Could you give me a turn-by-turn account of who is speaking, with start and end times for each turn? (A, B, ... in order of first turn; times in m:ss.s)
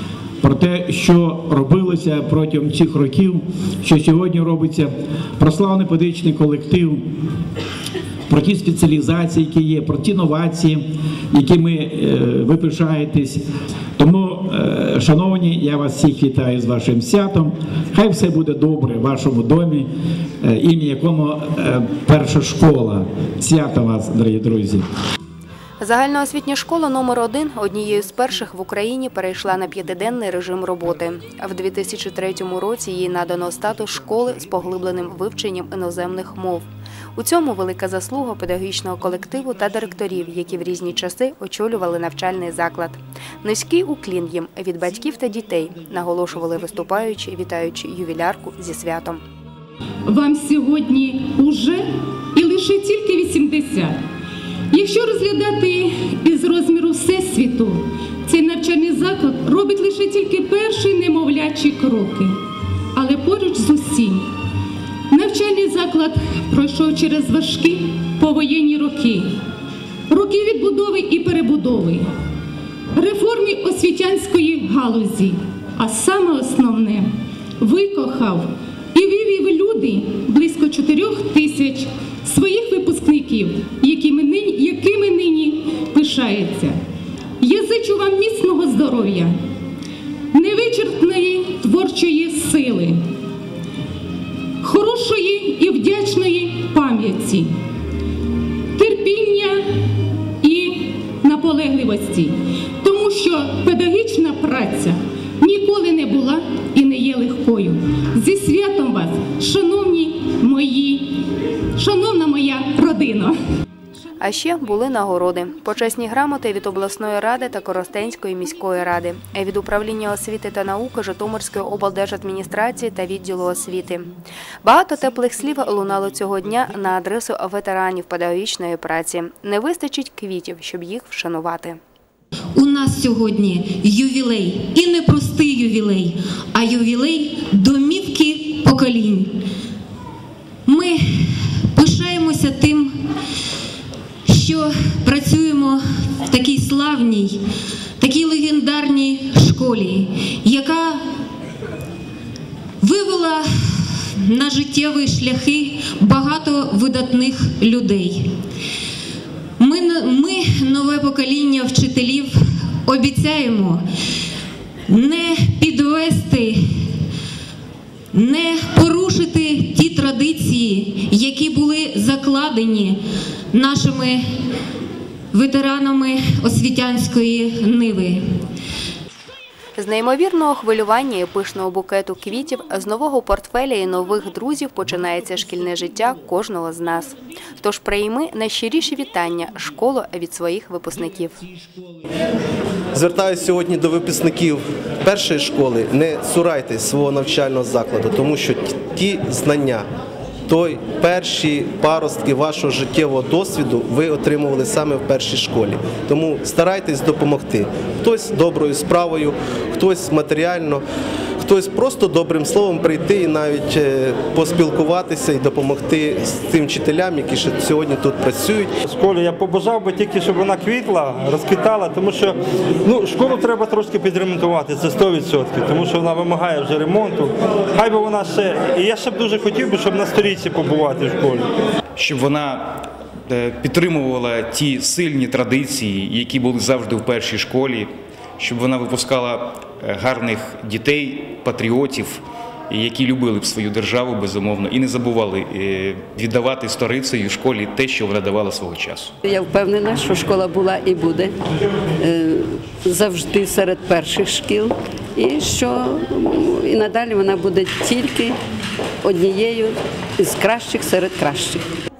0:00.4-0:07.0 A
0:08.3-0:13.4 A
0:14.0-0:19.9 A
0:20.4-0:24.8 A
0:25.8-0:49.2 B
0:50.0-0:54.0 C
0:54.7-1:02.4 C
1:02.9-1:04.2 C
1:05.1-1:09.3 C
1:10.1-1:12.1 C
1:12.9-1:26.8 C
1:27.4-1:29.4 C
1:30.3-1:33.0 C
1:34.6-1:37.5 C
1:38.8-1:39.7 C
1:40.4-1:51.2 C
1:51.8-1:53.4 C
1:54.2-2:04.1 B
2:04.6-2:11.8 B
2:12.5-2:19.3 D
2:20.6-2:23.0 D
2:24.2-2:27.4 D
2:28.0-2:31.0 D
2:32.8-2:38.3 D
2:39.6-2:43.8 D
2:44.9-2:46.9 D
2:48.1-2:53.0 D
2:53.5-2:54.2 D
2:55.3-2:58.2 D
2:59.8-3:11.4 B
3:12.9-3:19.8 E
3:20.5-3:30.8 E
3:31.4-3:38.7 E
3:38.8-3:51.5 F
3:52.0-3:52.6 G
3:53.3-4:09.1 G
4:09.2-4:11.3 H
4:12.0-4:18.4 H
4:19.0-4:21.6 H